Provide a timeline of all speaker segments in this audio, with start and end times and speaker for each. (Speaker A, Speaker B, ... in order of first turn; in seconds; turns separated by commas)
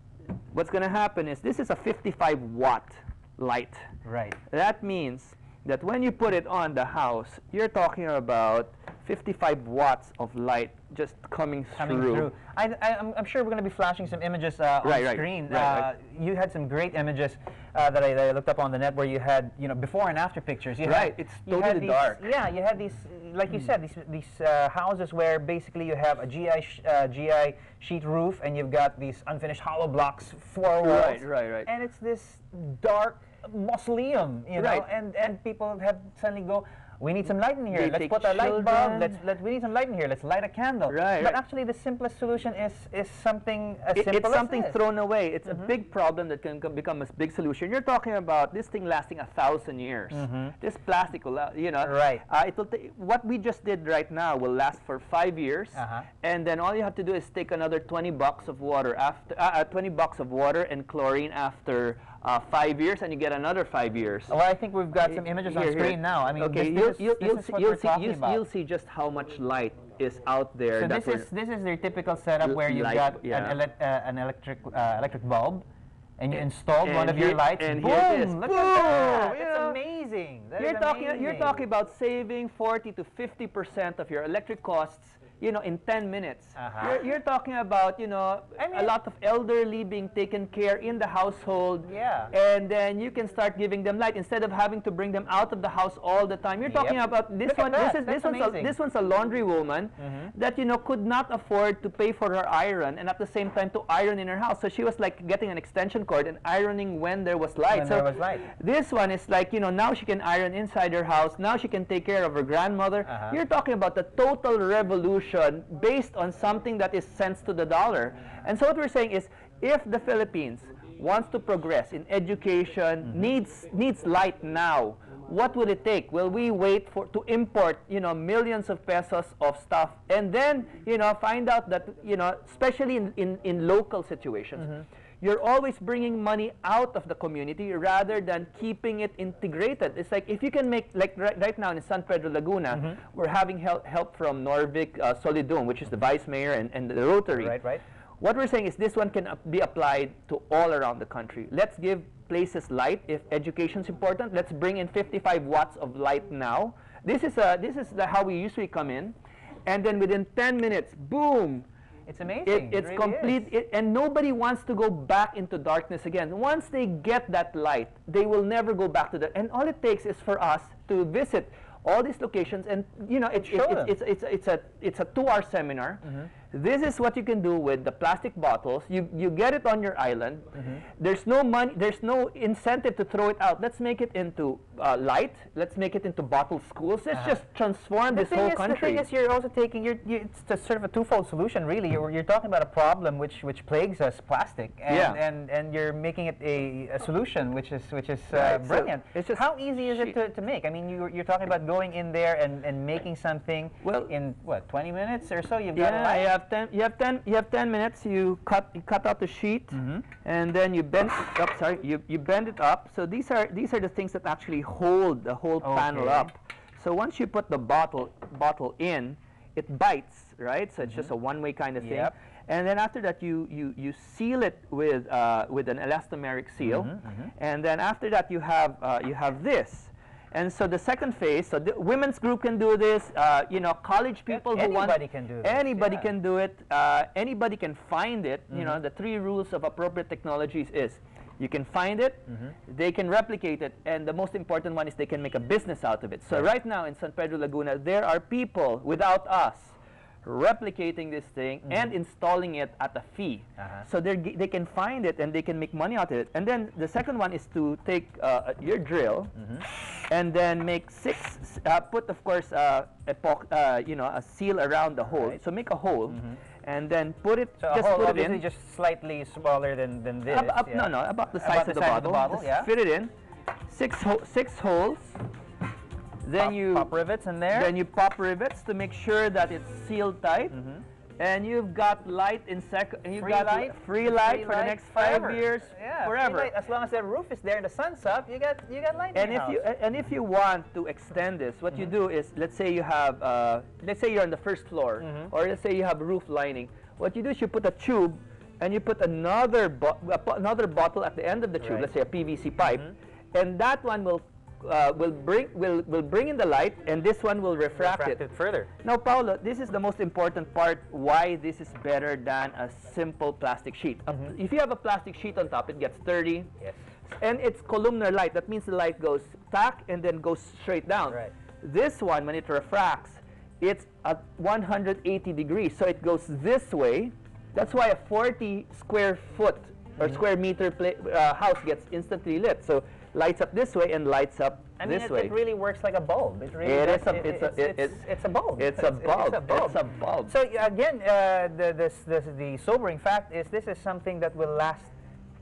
Speaker A: 0.5-3.9, Speaker B: 4.0-4.3, Speaker A: 4.5-12.3, Speaker B: 11.8-44.8, Speaker A: 14.8-15.9, Speaker A: 20.8-22.3, Speaker A: 30.8-31.7, Speaker A: 34.6-34.9, Speaker A: 37.7-39.2, Speaker A: 40.9-41.4, Speaker A: 43.9-64.3, Speaker B: 50.1-50.5, Speaker B: 51.8-52.2, Speaker B: 55.7-56.1, Speaker B: 64.3-68.4, Speaker A: 65.0-71.3, Speaker B: 70.8-75.6, Speaker A: 72.4-73.6, Speaker B: 76.2-81.6, Speaker A: 76.3-79.8, Speaker A: 80.6-147.6, Speaker B: 86.5-87.0, Speaker B: 88.6-88.9, Speaker B: 91.8-92.3, Speaker B: 96.7-98.7, Speaker B: 100.0-100.3, Speaker B: 107.7-108.5, Speaker B: 113.0-113.3, Speaker B: 142.7-143.0, Speaker B: 147.3-147.8, Speaker A: 148.2-159.1, Speaker A: 159.7-161.7, Speaker B: 162.1-163.5, Speaker A: 162.4-189.0, Speaker B: 173.3-173.9, Speaker B: 187.1-187.4, Speaker B: 188.1-206.3, Speaker A: 194.9-195.2, Speaker A: 198.3-200.2, Speaker A: 203.8-204.1, Speaker A: 205.7-268.4, Speaker B: 209.7-210.1, Speaker B: 215.6-216.3, Speaker B: 221.8-222.1, Speaker B: 226.6-227.3, Speaker B: 234.3-236.1, Speaker B: 238.5-238.8, Speaker B: 253.6-253.8, Speaker B: 259.4-259.6, Speaker B: 266.1-266.4, Speaker B: 267.6-272.7, Speaker A: 270.3-273.1, Speaker A: 273.7-275.2, Speaker A: 276.2-276.9, Speaker B: 276.4-277.7, Speaker A: 277.5-280.6, Speaker B: 280.5-280.8, Speaker A: 281.2-286.5, Speaker B: 283.2-289.6, Speaker A: 289.1-308.2, Speaker B: 295.0-295.3, Speaker B: 301.6-301.9, Speaker B: 307.8-308.7, Speaker A: 308.8-316.5, Speaker A: 317.1-335.3, Speaker B: 334.8-344.9, Speaker A: 336.6-338.1, Speaker A: 338.6-340.3